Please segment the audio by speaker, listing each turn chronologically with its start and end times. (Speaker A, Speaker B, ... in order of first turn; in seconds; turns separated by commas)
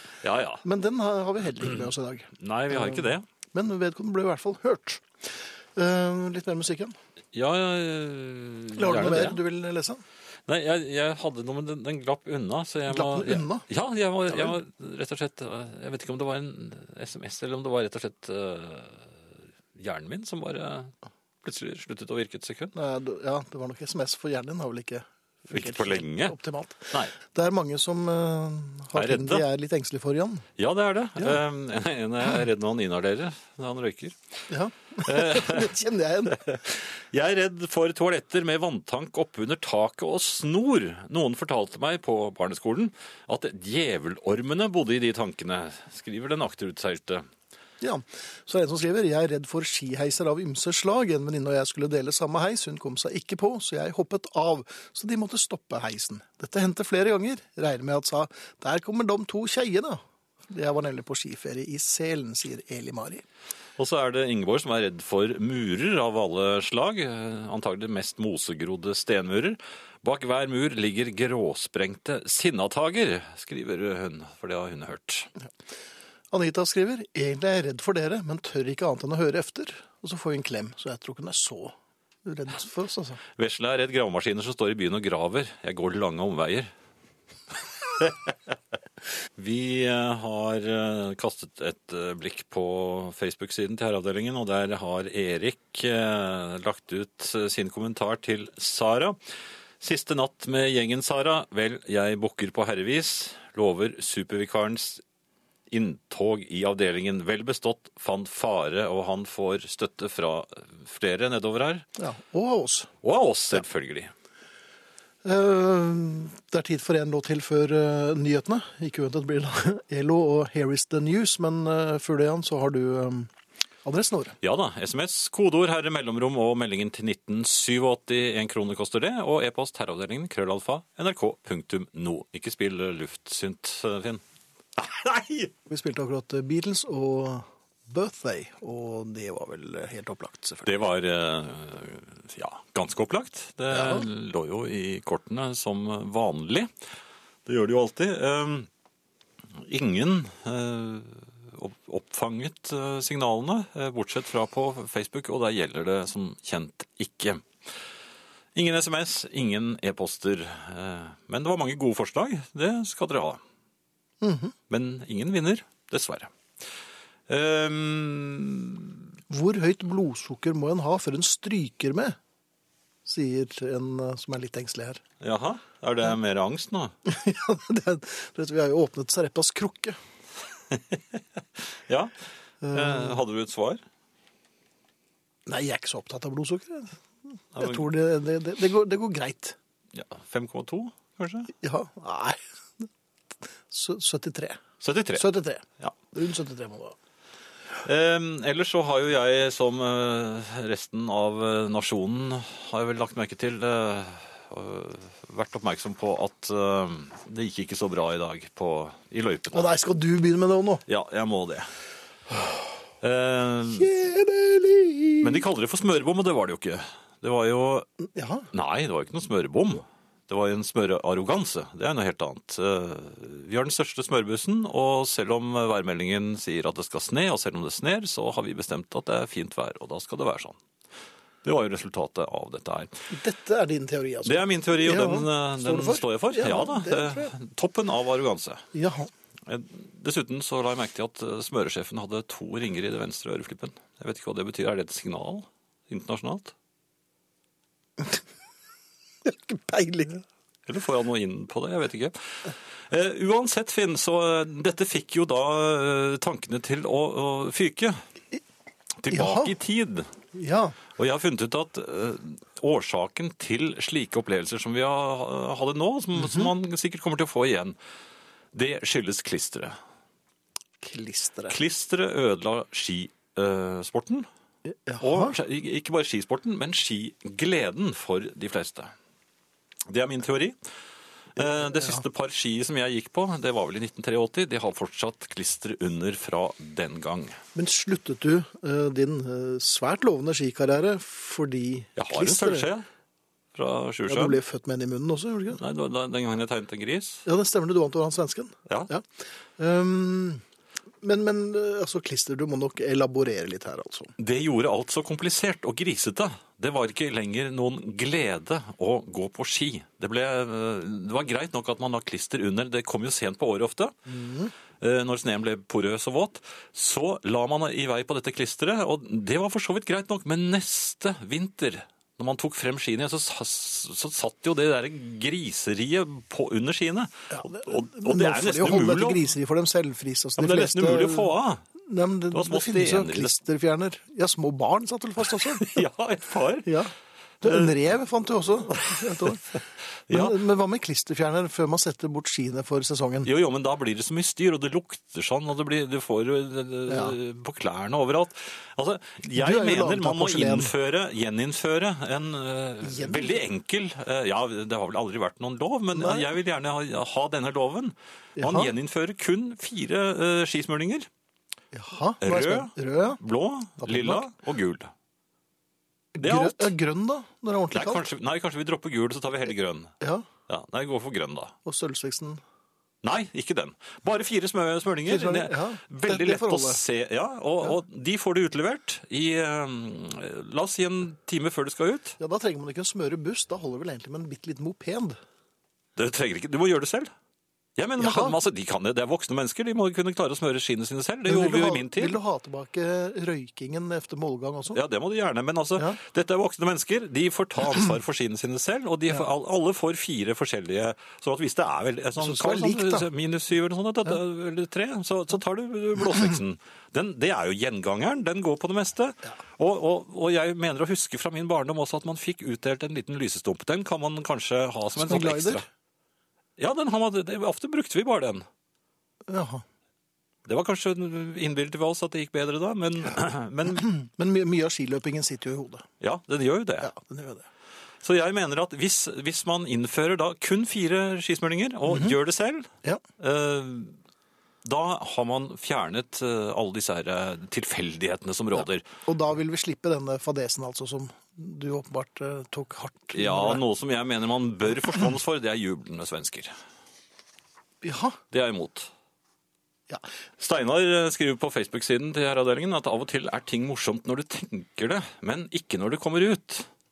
Speaker A: 0.2-0.6, Speaker B: 0.6-6.9, Speaker A: 2.4-3.2, Speaker A: 7.3-9.4, Speaker B: 8.7-10.0, Speaker A: 10.5-19.2, Speaker B: 12.9-13.6, Speaker A: 19.7-22.7, Speaker B: 22.7-30.5, Speaker A: 25.5-26.4, Speaker A: 28.9-29.4, Speaker A: 30.6-34.2, Speaker B: 34.5-36.6, Speaker A: 35.0-35.7, Speaker A: 36.3-47.2, Speaker B: 47.8-63.2, Speaker A: 63.8-75.3, Speaker B: 76.3-83.2, Speaker A: 83.3-86.7, Speaker A: 88.0-88.5, Speaker A: 89.3-99.2, Speaker A: 99.8-105.0, Speaker A: 105.7-111.8, Speaker B: 112.0-112.9, Speaker A: 113.0-114.1, Speaker B: 115.2-123.3, Speaker B: 123.8-124.3, Speaker A: 124.4-134.2, Speaker A: 134.8-135.5, Speaker B: 135.7-140.7, Speaker A: 140.6-146.7, Speaker B: 143.7-144.1, Speaker A: 147.4-148.7, Speaker A: 149.5-157.5, Speaker A: 158.5-163.4, Speaker B: 164.2-164.5, Speaker A: 164.7-166.3, Speaker A: 167.3-169.0, Speaker B: 169.3-172.2, Speaker B: 173.0-175.0, Speaker A: 175.2-176.9, Speaker B: 177.1-180.0, Speaker A: 180.7-182.1, Speaker B: 182.6-183.2, Speaker A: 182.7-183.8, Speaker B: 185.5-187.0, Speaker A: 187.5-187.8, Speaker B: 187.5-189.6, Speaker A: 189.9-191.5, Speaker B: 191.6-192.8, Speaker B: 193.7-194.6, Speaker A: 194.8-195.2, Speaker B: 195.1-196.9, Speaker A: 197.8-209.7, Speaker B: 209.5-210.8, Speaker A: 210.8-211.7, Speaker A: 213.0-213.9, Speaker B: 213.7-215.4, Speaker A: 215.2-217.9, Speaker B: 218.0-218.5, Speaker A: 218.5-230.6, Speaker A: 231.4-233.0, Speaker B: 233.1-237.3, Speaker A: 234.2-238.7, Speaker B: 238.7-239.1, Speaker A: 239.5-246.5, Speaker B: 249.2-250.2, Speaker A: 250.7-258.0, Speaker A: 259.0-260.1, Speaker B: 259.1-259.5, Speaker B: 260.3-260.8, Speaker A: 260.9-267.8, Speaker A: 268.5-269.8, Speaker B: 270.8-271.6, Speaker A: 271.5-274.3, Speaker B: 274.6-275.4, Speaker A: 275.0-278.9, Speaker A: 279.9-280.6, Speaker A: 281.4-287.4, Speaker B: 287.5-292.7, Speaker A: 291.9-292.9, Speaker A: 293.5-294.4, Speaker B: 294.1-295.6, Speaker A: 295.5-297.2, Speaker B: 297.2-299.0, Speaker B: 299.6-300.4, Speaker B: 301.0-304.1, Speaker A: 304.2-313.9, Speaker B: 314.1-314.5, Speaker A: 314.8-329.3, Speaker B: 327.3-335.8, Speaker A: 330.4-331.6, Speaker A: 332.3-333.3, Speaker A: 335.4-336.7, Speaker B: 336.6-343.3, Speaker A: 337.4-337.7, Speaker A: 338.7-339.6, Speaker A: 340.1-340.4, Speaker A: 343.2-361.1, Speaker B: 346.9-347.1, Speaker B: 349.3-350.7, Speaker B: 352.8-353.3, Speaker B: 355.9-356.3, Speaker B: 358.4-358.7, Speaker B: 361.7-363.2, Speaker A: 362.2-364.9, Speaker B: 363.8-364.3, Speaker B: 366.1-368.1, Speaker A: 366.2-366.7, Speaker A: 367.7-369.9, Speaker B: 370.0-370.2, Speaker A: 370.5-371.5, Speaker B: 371.6-372.4, Speaker A: 373.0-382.2, Speaker B: 375.1-376.8, Speaker B: 382.2-385.2, Speaker A: 385.9-387.1, Speaker A: 387.8-392.2, Speaker B: 388.0-388.4, Speaker B: 391.3-394.8, Speaker A: 394.7-415.6, Speaker B: 402.2-403.1, Speaker B: 414.9-415.6, Speaker A: 416.6-418.4, Speaker B: 419.3-419.6, Speaker A: 420.4-423.9, Speaker B: 423.9-425.9, Speaker A: 426.0-426.9, Speaker B: 426.8-427.5, Speaker A: 428.0-434.0, Speaker B: 431.9-432.1, Speaker A: 434.6-438.8, Speaker B: 439.1-443.6, Speaker A: 443.1-446.5, Speaker B: 447.8-448.2, Speaker A: 448.3-448.9, Speaker A: 450.4-456.7